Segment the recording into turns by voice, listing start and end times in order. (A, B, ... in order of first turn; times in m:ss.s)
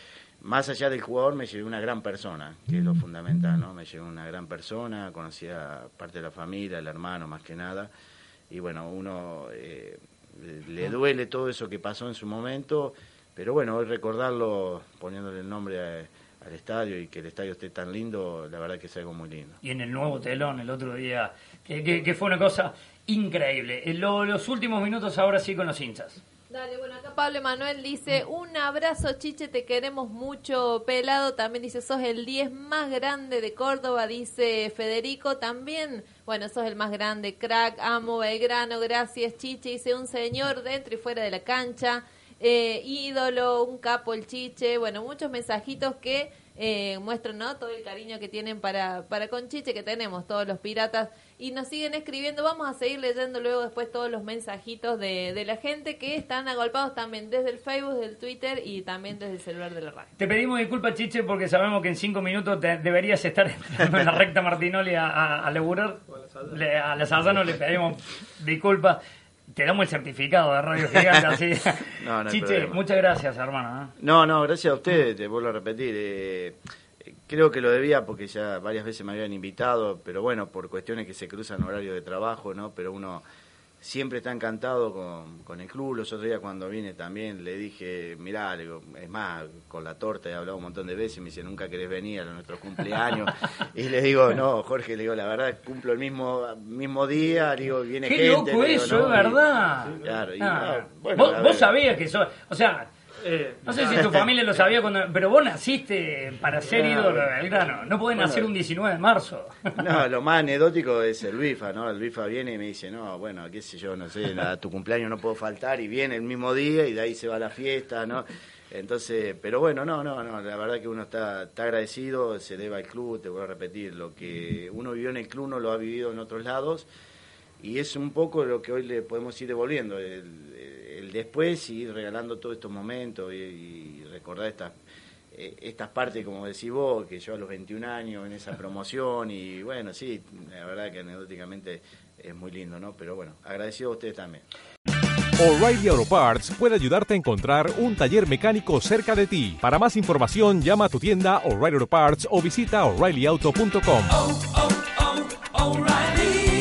0:00.4-0:07.9 A
0:08.5-0:19.6 A
0:19.6-0:26.2 B
0:26.5-1:00.1 C
1:00.2-1:09.0 B
1:06.1-1:06.6 D
1:09.5-1:13.9 B
1:12.0-1:12.8 A
1:14.0-1:23.2 A
1:23.8-1:39.4 A
1:38.0-1:42.9 B
1:39.8-1:40.2 D
1:40.0-1:41.8 A
1:43.2-1:44.3 D
1:43.6-1:49.8 B
1:43.8-1:44.2 A
1:46.7-1:47.3 A
1:48.1-1:48.5 A
1:49.7-2:06.9 A
2:07.6-2:14.8 A
2:15.3-2:24.4 A
2:25.4-2:34.2 E